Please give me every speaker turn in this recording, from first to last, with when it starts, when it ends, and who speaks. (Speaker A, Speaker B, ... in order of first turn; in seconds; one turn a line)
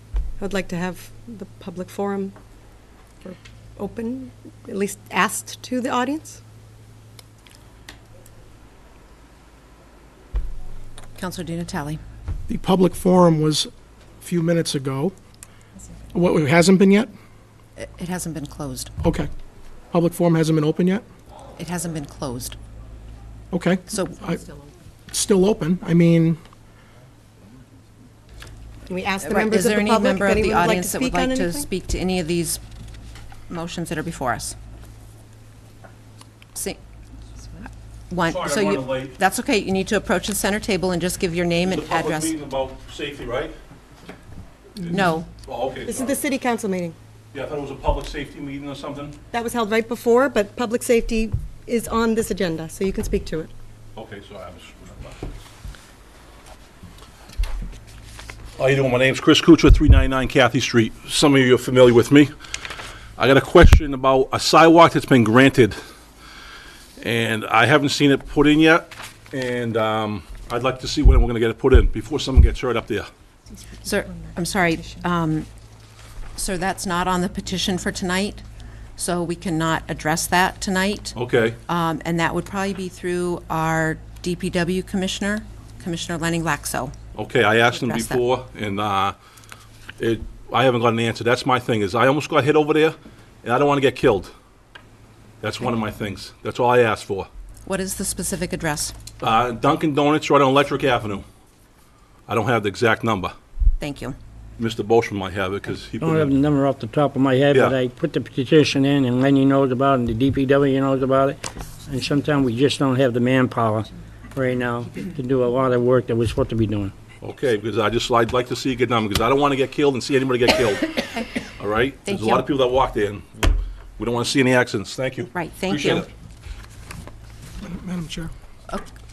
Speaker A: 0.4-2.4
Speaker A: 3.2-6.4
Speaker B: 11.2-12.0
Speaker C: 12.5-13.7
Speaker C: 14.2-15.1
Speaker C: 16.1-17.1
Speaker B: 17.8-18.9
Speaker C: 19.0-19.3
Speaker C: 19.9-21.0
Speaker B: 21.6-22.6
Speaker C: 23.5-24.4
Speaker B: 23.9-24.5
Speaker C: 25.1-26.4
Speaker A: 28.9-31.7
Speaker B: 29.2-32.6
Speaker B: 33.5-34.5
Speaker B: 38.1-42.4
Speaker D: 38.3-39.2
Speaker D: 41.6-43.6
Speaker D: 44.8-46.1
Speaker B: 44.9-45.3
Speaker A: 45.9-47.0
Speaker D: 47.3-49.2
Speaker A: 49.3-53.5
Speaker D: 54.0-55.3
Speaker D: 58.6-62.3
Speaker D: 63.2-65.8
Speaker D: 67.0-73.1
Speaker B: 73.8-75.5
Speaker A: 74.6-74.9
Speaker B: 76.4-78.4
Speaker B: 79.0-86.9
Speaker D: 81.2-81.6
Speaker D: 87.2-89.2
Speaker B: 87.6-88.3
Speaker D: 90.0-94.3
Speaker D: 95.4-97.3
Speaker B: 97.7-98.9
Speaker D: 99.2-101.2
Speaker D: 102.3-103.3
Speaker B: 103.8-104.2
Speaker D: 104.6-106.3
Speaker E: 106.0-116.9
Speaker D: 117.2-126.1
Speaker B: 122.1-122.5
Speaker B: 125.3-126.1
Speaker C: 127.6-128.3